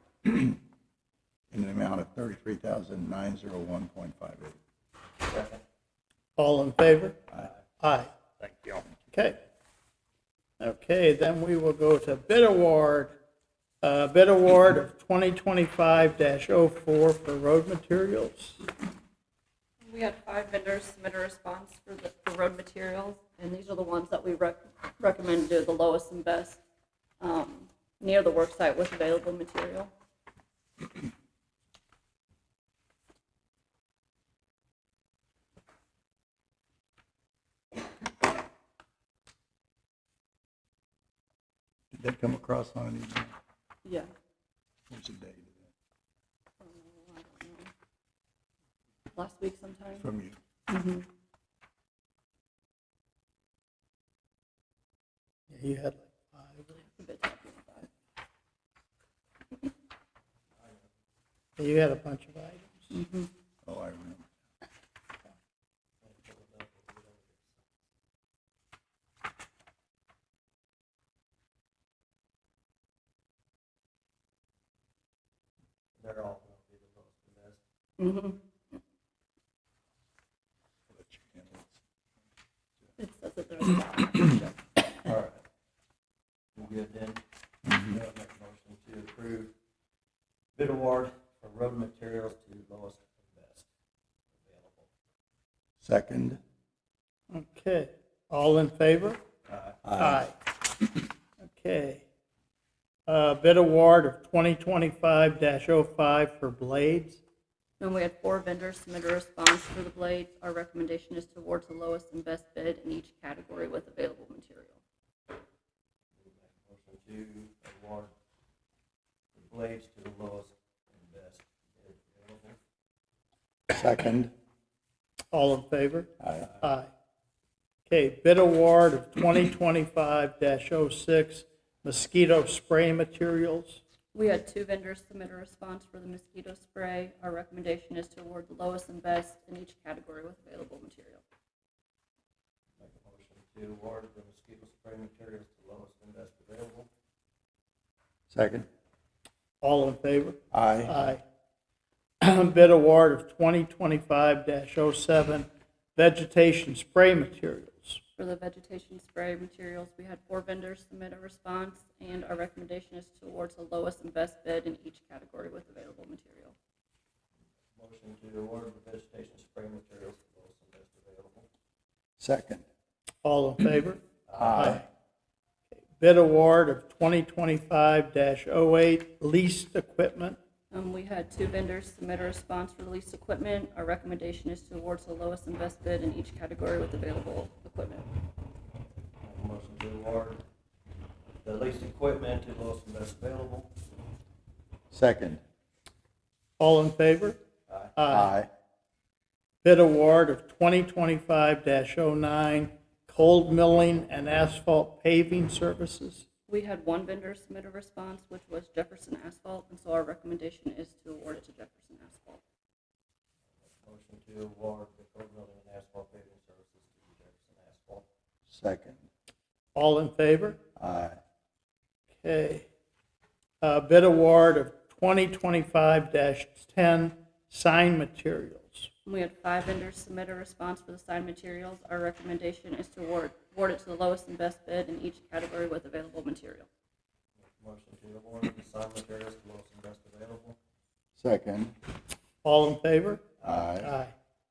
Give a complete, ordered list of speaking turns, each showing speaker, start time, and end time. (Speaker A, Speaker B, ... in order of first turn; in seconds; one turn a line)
Speaker A: 0.2-0.6
Speaker A: 1.5-4.6
Speaker B: 5.2-5.6
Speaker C: 6.4-7.3
Speaker C: 7.8-8.1
Speaker A: 8.5-8.8
Speaker C: 9.1-9.4
Speaker C: 10.6-13.2
Speaker C: 13.8-18.6
Speaker D: 19.8-26.6
Speaker D: 27.2-29.9
Speaker A: 41.9-43.4
Speaker D: 43.8-44.1
Speaker A: 44.9-45.7
Speaker D: 46.6-47.7
Speaker D: 49.1-50.0
Speaker A: 50.0-50.4
Speaker D: 50.7-51.1
Speaker C: 55.5-56.7
Speaker D: 56.8-57.9
Speaker B: 60.6-60.9
Speaker C: 61.6-62.9
Speaker D: 62.9-63.3
Speaker A: 63.6-64.3
Speaker B: 66.0-67.7
Speaker B: 76.0-77.6
Speaker D: 78.0-78.8
Speaker A: 80.9-81.8
Speaker D: 83.0-84.6
Speaker B: 85.0-85.4
Speaker B: 86.5-89.5
Speaker B: 90.6-93.7
Speaker B: 94.3-94.9
Speaker A: 95.8-96.4
Speaker C: 97.3-99.2
Speaker B: 99.5-99.8
Speaker A: 99.8-100.2
Speaker C: 100.0-100.3
Speaker C: 101.4-102.0
Speaker C: 103.1-107.2
Speaker D: 107.8-114.8
Speaker B: 116.2-118.1
Speaker B: 119.3-122.6
Speaker A: 123.7-124.3
Speaker C: 125.3-126.9
Speaker A: 126.2-126.5
Speaker C: 127.9-133.8
Speaker D: 134.1-141.2
Speaker B: 142.8-146.9
Speaker A: 148.3-148.7
Speaker C: 149.6-151.2
Speaker A: 150.5-150.9
Speaker C: 152.2-158.0
Speaker D: 158.2-166.6
Speaker B: 167.8-171.5
Speaker A: 172.2-172.7
Speaker C: 173.2-174.0
Speaker B: 174.3-174.8
Speaker A: 174.4-174.8
Speaker C: 174.6-174.8
Speaker C: 176.0-180.4
Speaker D: 180.7-188.1
Speaker B: 189.2-190.4
Speaker B: 191.4-193.7
Speaker A: 194.9-195.4
Speaker C: 196.6-197.4
Speaker B: 197.7-197.9
Speaker C: 198.0-198.3
Speaker A: 198.1-198.5
Speaker C: 199.6-206.3
Speaker D: 206.5-212.4
Speaker B: 213.6-218.1
Speaker A: 218.5-219.1
Speaker C: 219.8-220.6
Speaker A: 220.8-221.2
Speaker C: 222.2-222.7
Speaker C: 223.6-228.9
Speaker D: 229.1-236.7
Speaker B: 237.4-240.6
Speaker A: 241.2-241.7
Speaker C: 242.4-244.1
Speaker A: 243.4-243.9